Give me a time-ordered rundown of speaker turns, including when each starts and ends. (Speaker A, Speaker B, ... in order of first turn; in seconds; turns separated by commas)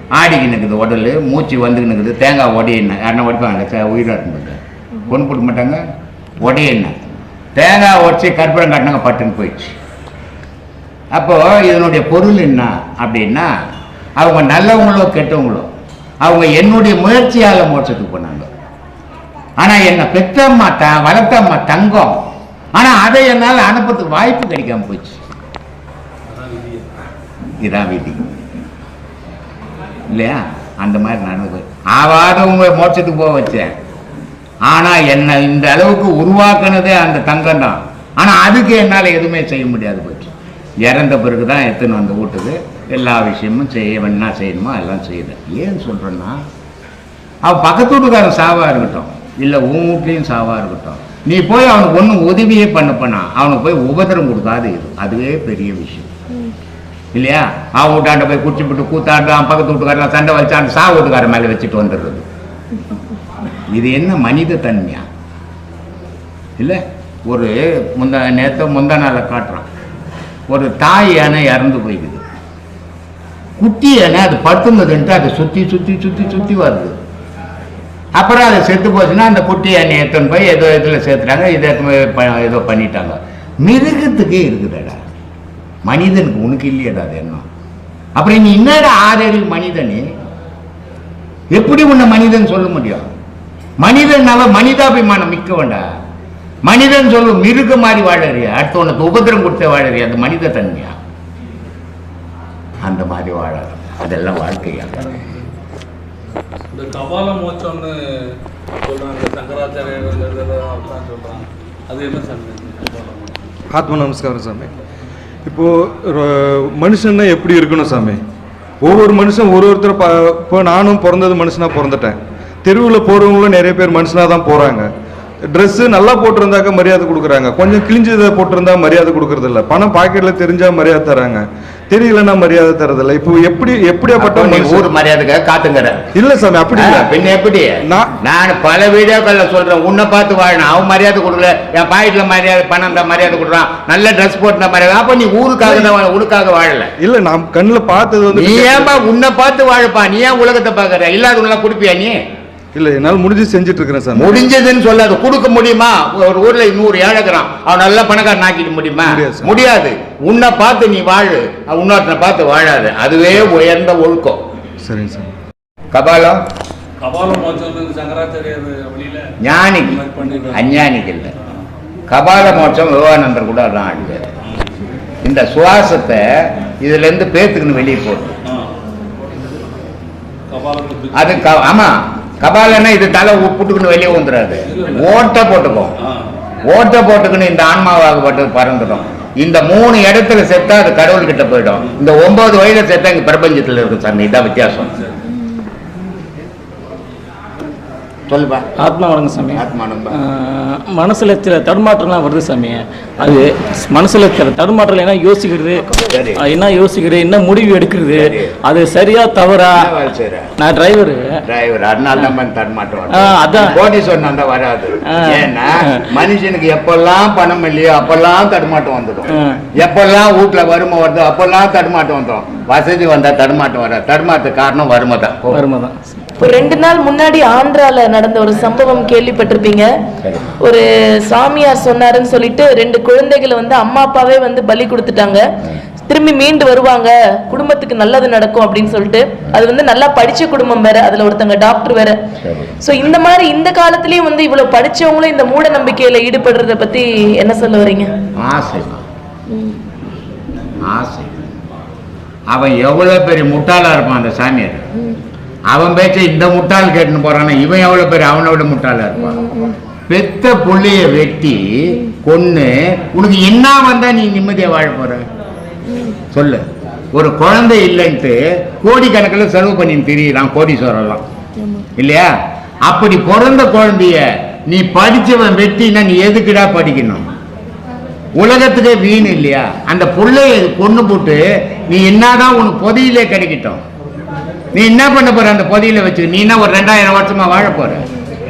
Speaker A: 0.2-5.8, Speaker A: 6.4-7.0, Speaker A: 7.5-9.8, Speaker A: 11.1-13.5, Speaker A: 14.2-15.7, Speaker A: 16.2-18.5, Speaker A: 19.6-22.2, Speaker A: 22.7-25.2, Speaker B: 26.3-26.9, Speaker A: 27.6-28.2, Speaker A: 30.1-33.8, Speaker A: 34.7-46.4, Speaker A: 47.4-56.1, Speaker A: 57.1-62.2, Speaker A: 63.7-65.0, Speaker A: 66.6-69.7, Speaker A: 70.5-72.2, Speaker A: 73.6-77.0, Speaker A: 78.2-85.0, Speaker A: 85.8-87.5, Speaker A: 88.2-90.1, Speaker A: 91.5-93.1, Speaker A: 93.8-95.9, Speaker A: 96.7-101.0, Speaker A: 102.8-105.2, Speaker B: 106.7-113.4, Speaker C: 113.7-114.7, Speaker C: 115.5-118.2, Speaker C: 118.8-124.9, Speaker C: 125.5-134.9, Speaker A: 134.2-136.1, Speaker C: 136.1-137.2, Speaker A: 136.8-146.9, Speaker C: 137.8-138.1, Speaker C: 147.0-149.0, Speaker A: 148.3-152.2, Speaker C: 152.7-154.3, Speaker A: 154.2-164.4, Speaker C: 159.1-159.6, Speaker C: 164.8-165.3, Speaker A: 165.9-166.4, Speaker B: 167.0-170.7, Speaker A: 169.4-171.3, Speaker A: 172.1-174.3, Speaker A: 175.2-178.4, Speaker B: 180.5-181.5, Speaker A: 181.1-185.9, Speaker B: 184.7-185.2, Speaker A: 186.7-195.0, Speaker A: 198.3-198.7, Speaker D: 198.8-209.9, Speaker A: 199.6-200.2, Speaker A: 206.1-206.4, Speaker A: 208.1-208.6, Speaker A: 209.7-210.5, Speaker D: 210.6-211.4, Speaker A: 211.4-225.6, Speaker D: 213.1-213.8, Speaker D: 215.1-216.0, Speaker D: 219.3-219.6, Speaker D: 225.5-226.0, Speaker E: 226.4-229.9, Speaker A: 230.2-230.5, Speaker E: 230.6-235.5, Speaker E: 236.1-242.2, Speaker A: 242.4-242.7, Speaker E: 242.8-248.2, Speaker A: 248.4-249.0, Speaker E: 249.5-249.8, Speaker A: 250.8-251.5, Speaker A: 252.5-254.9, Speaker A: 255.7-259.4, Speaker E: 259.4-259.8, Speaker A: 260.1-265.2, Speaker E: 265.9-266.2, Speaker A: 266.3-271.2, Speaker E: 271.6-271.9, Speaker A: 272.0-277.3, Speaker A: 278.4-283.8, Speaker A: 284.7-288.1